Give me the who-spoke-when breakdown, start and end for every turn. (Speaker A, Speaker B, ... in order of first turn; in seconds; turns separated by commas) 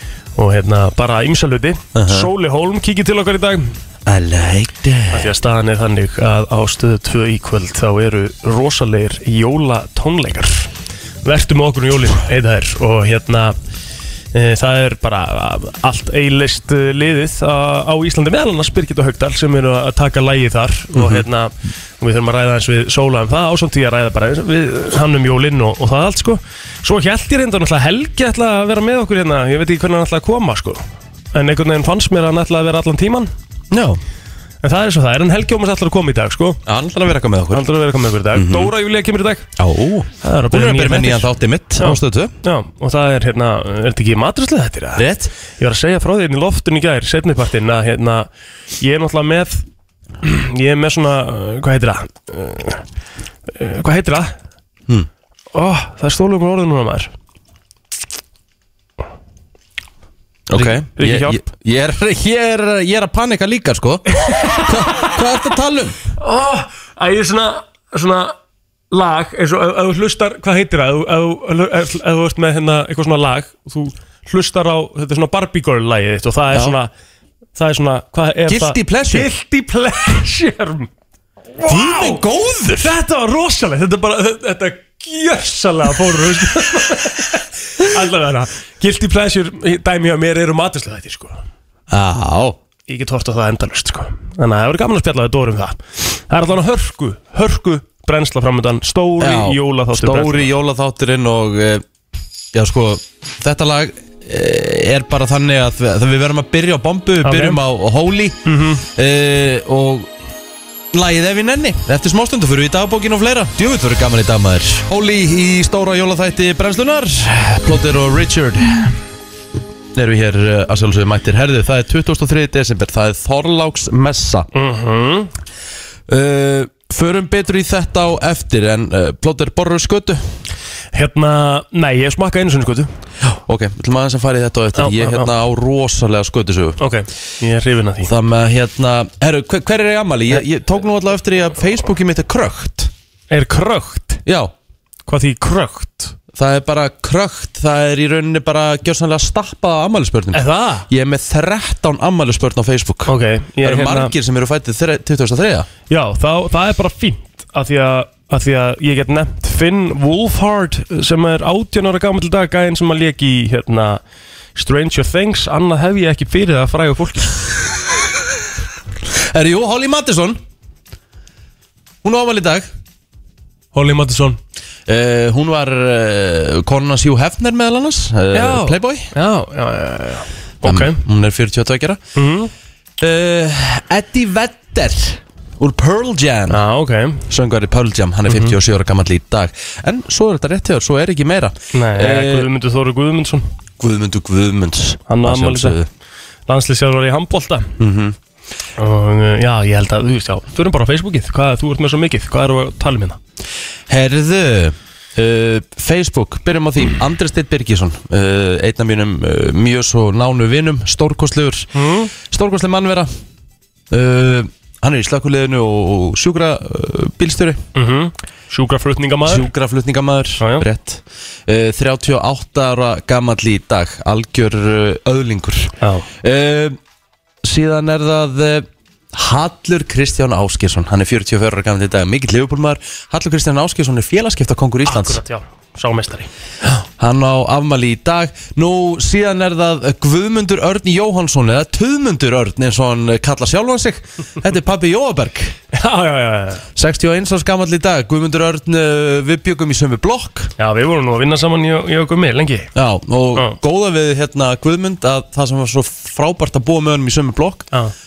Speaker A: 0.3-3.7, Speaker B: 1.9-2.3, Speaker B: 4.0-5.3, Speaker A: 5.1-10.7, Speaker A: 11.2-13.5, Speaker A: 14.3-30.8, Speaker B: 20.9-21.2, Speaker A: 31.3-33.3, Speaker B: 33.7-34.0, Speaker A: 34.6-36.6, Speaker B: 36.6-37.6, Speaker A: 37.5-39.5, Speaker B: 38.3-38.7, Speaker B: 39.6-42.3, Speaker A: 40.2-45.0, Speaker B: 45.0-45.3, Speaker A: 45.6-48.3, Speaker A: 48.8-49.6, Speaker A: 50.2-52.8, Speaker A: 53.5-54.3, Speaker A: 55.5-57.1, Speaker B: 60.5-66.0, Speaker A: 60.5-61.4, Speaker A: 64.2-64.6, Speaker A: 66.2-68.3, Speaker A: 68.9-76.9, Speaker A: 77.5-80.9, Speaker B: 78.5-79.3, Speaker A: 81.6-82.2, Speaker B: 81.7-82.9, Speaker A: 82.8-91.4, Speaker B: 91.9-92.6, Speaker A: 92.9-100.5, Speaker B: 99.2-101.8, Speaker B: 102.5-108.4, Speaker A: 107.2-107.6, Speaker A: 108.4-108.8, Speaker B: 109.0-110.1, Speaker B: 110.9-118.9, Speaker B: 119.9-124.5, Speaker A: 124.5-125.3, Speaker B: 126.1-130.3, Speaker A: 130.9-132.9, Speaker B: 133.2-136.8, Speaker A: 134.8-135.3, Speaker A: 136.8-138.1, Speaker B: 138.0-142.9, Speaker A: 143.3-144.2, Speaker B: 144.2-144.5, Speaker A: 145.1-146.2, Speaker B: 146.3-153.1, Speaker A: 150.3-150.9, Speaker A: 153.1-154.1, Speaker B: 153.6-155.7, Speaker A: 155.9-164.0, Speaker A: 164.6-167.6, Speaker B: 169.3-170.4, Speaker B: 172.0-172.7, Speaker A: 173.7-174.4, Speaker B: 174.9-179.1, Speaker A: 178.3-181.0, Speaker B: 180.6-182.0, Speaker A: 182.2-182.5, Speaker B: 183.0-186.6, Speaker A: 186.5-187.2, Speaker B: 187.3-192.5, Speaker A: 188.3-188.5, Speaker A: 191.7-193.5, Speaker B: 193.8-195.9, Speaker A: 195.1-195.8, Speaker A: 196.5-197.7, Speaker B: 197.8-198.2, Speaker A: 198.8-203.2, Speaker B: 203.9-211.7, Speaker A: 211.7-212.1, Speaker B: 212.3-213.1, Speaker B: 213.9-217.6, Speaker A: 217.7-219.5, Speaker B: 219.2-226.8, Speaker A: 225.8-226.1, Speaker B: 227.4-235.2, Speaker A: 234.8-236.3, Speaker B: 237.0-245.5, Speaker A: 245.7-246.6, Speaker B: 246.8-250.5, Speaker A: 250.6-252.7, Speaker B: 252.7-257.7